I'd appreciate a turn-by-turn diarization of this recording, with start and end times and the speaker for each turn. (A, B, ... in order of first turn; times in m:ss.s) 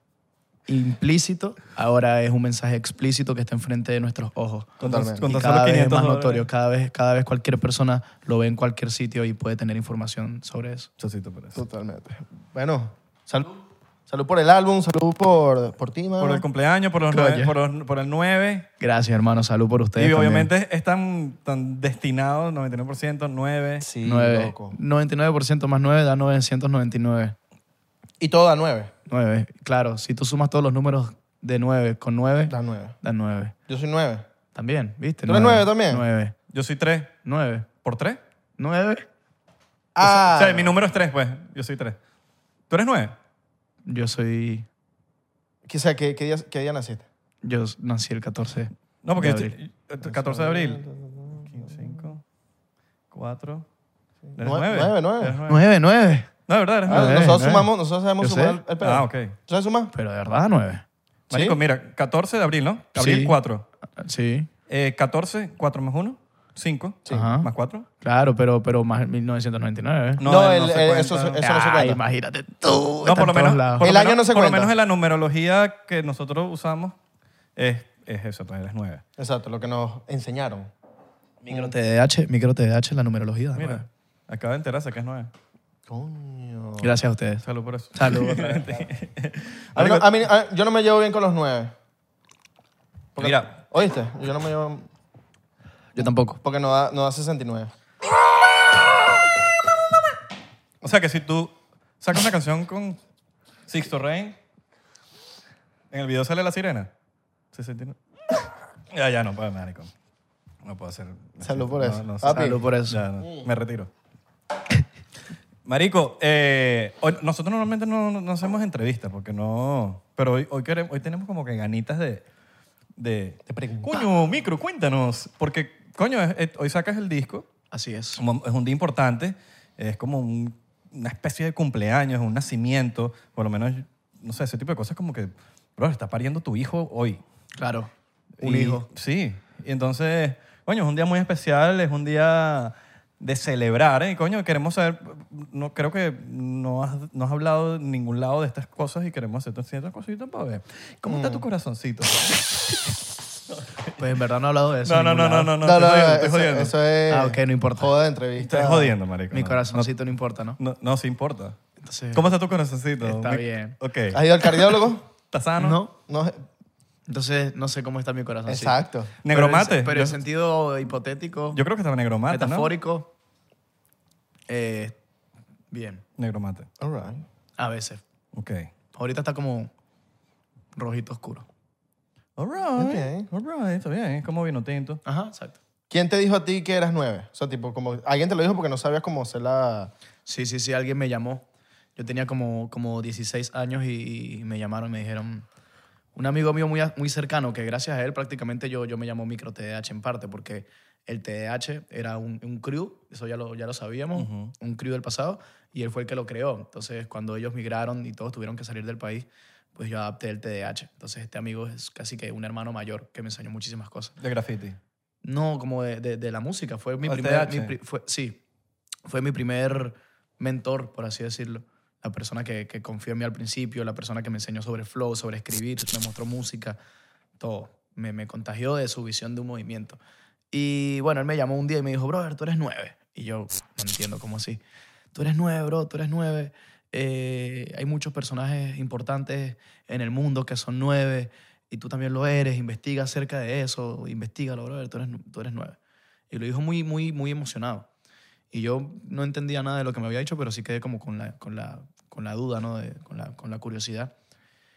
0:00.7-0:10.9 A
0:04.8-0:06.4 B
0:04.8-0:05.2 C
0:11.0-0:11.6 B
0:11.5-0:16.4 C
0:16.2-0:18.7 B
0:17.1-0:17.6 A
0:18.8-0:20.5 A
0:20.0-0:23.9 B
0:23.8-0:24.8 C
0:24.0-0:27.4 A
0:28.2-0:28.9 C
0:29.1-0:33.5 A
0:32.5-0:33.0 C
0:33.7-0:34.2 C
0:34.5-0:36.3 A
0:35.3-0:36.0 C
0:36.5-0:37.1 B
0:37.2-0:37.7 A
0:37.8-0:38.2 B
0:38.6-0:39.1 A
0:39.9-0:40.8 C
0:40.0-0:42.0 B
0:42.7-0:43.1 B
0:43.8-0:44.7 A
0:45.7-0:47.0 C
0:47.4-0:49.5 A
0:49.0-0:50.8 B
0:50.0-0:52.1 C
0:51.4-0:52.2 B
0:53.1-0:53.6 B
0:54.3-0:55.4 C
0:54.4-0:55.6 B
0:55.5-0:56.3 A
0:56.4-0:57.2 B
0:56.8-0:58.6 A
0:56.8-0:59.9 C
0:58.8-0:59.3 B
0:59.9-1:00.8 A
1:01.3-1:03.6 B
1:01.3-1:01.6 C
1:02.9-1:03.4 A
1:04.0-1:04.5 A
1:04.7-1:07.8 B
1:07.0-1:07.3 C
1:07.1-1:07.5 A
1:08.0-1:10.2 A
1:10.2-1:11.4 B
1:10.2-1:12.0 C
1:11.4-1:13.8 A
1:13.0-1:16.9 B
1:13.8-1:14.7 C
1:17.6-1:19.0 B
1:19.2-1:20.7 C
1:21.4-1:23.8 A
1:23.6-1:25.3 B
1:25.9-1:26.9 C
1:26.8-1:27.4 A
1:27.4-1:30.0 B
1:27.9-1:28.8 A
1:29.7-1:31.7 C
1:33.2-1:33.5 B
1:33.2-1:34.9 C
1:35.9-1:36.4 A
1:36.4-1:37.7 C
1:40.8-1:43.0 B
1:43.7-1:44.4 B
1:45.9-1:46.9 B
1:47.5-1:48.0 B
1:48.9-1:49.9 B
1:50.6-1:53.9 B
1:51.4-1:52.6 C
1:52.2-1:53.0 A
1:55.6-2:02.2 B
2:03.0-2:07.5 B
2:03.5-2:04.1 C
2:07.7-2:08.2 A
2:08.2-2:17.2 B
2:17.6-2:18.9 A
2:18.4-2:33.0 B
2:31.0-2:31.4 C
2:33.5-2:34.0 B
2:34.0-2:35.5 A
2:34.8-2:36.7 B
2:35.6-2:38.9 C
2:37.1-2:37.9 A
2:38.4-2:39.9 B
2:39.3-2:40.6 A
2:40.6-2:41.6 B
2:41.8-2:42.3 A
2:42.1-2:44.2 B
2:43.0-2:43.8 A
2:44.1-2:45.0 C
2:45.3-2:45.8 B
2:45.6-2:45.9 A
2:46.1-2:46.4 C
2:47.1-2:51.6 A
2:48.4-2:49.1 C
2:49.2-2:50.2 B
2:51.5-2:52.7 B
2:52.3-2:53.1 A
2:54.5-2:55.0 A
2:55.7-2:56.0 A
2:56.2-2:56.7 B
2:56.8-2:57.2 C
2:57.6-2:58.0 A
2:58.3-2:58.7 B
2:58.9-2:59.7 A
3:00.7-3:01.5 A
3:02.4-3:05.0 B
3:02.8-3:03.3 C
3:05.0-3:05.6 A
3:05.9-3:09.9 C
3:10.2-3:11.4 A
3:12.0-3:15.4 A
3:16.1-3:34.2 A
3:24.2-3:24.5 B
3:34.2-3:34.8 B
3:35.2-3:38.4 A
3:37.0-3:37.7 B
3:39.0-3:46.8 A
3:47.4-3:50.0 A
3:50.5-3:54.6 A
3:55.1-4:05.8 A
4:06.3-4:07.9 A
4:08.5-4:14.1 A